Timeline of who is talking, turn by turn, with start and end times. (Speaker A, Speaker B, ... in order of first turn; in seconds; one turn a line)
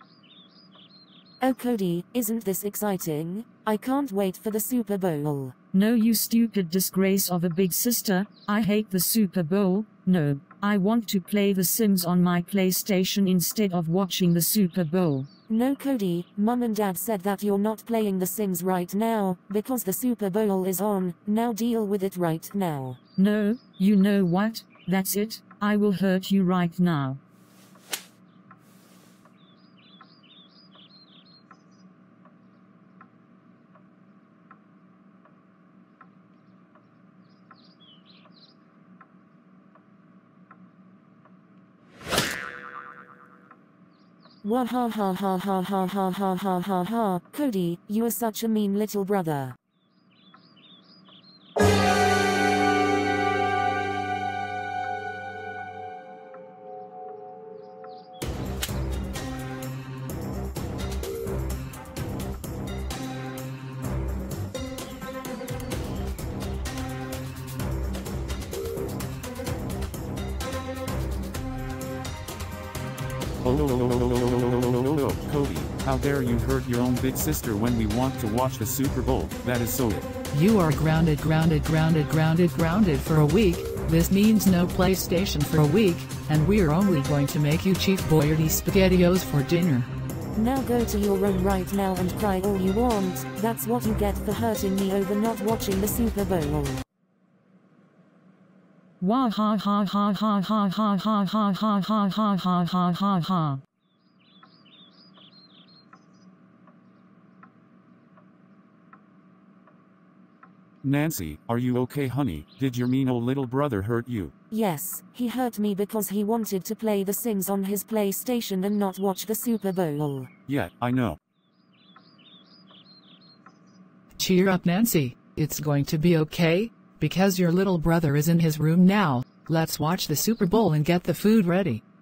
Speaker A: 1.4-5.5
Speaker B: 5.7-15.3
Speaker A: 15.5-23.0
Speaker B: 23.2-27.2
Speaker A: 44.4-49.5
Speaker C: 73.4-80.1
Speaker D: 80.3-89.9
Speaker A: 90.3-96.8
Speaker B: 99.0-103.6
Speaker C: 110.8-114.3
Speaker A: 114.5-120.3
Speaker C: 120.5-121.2
Speaker D: 124.2-131.8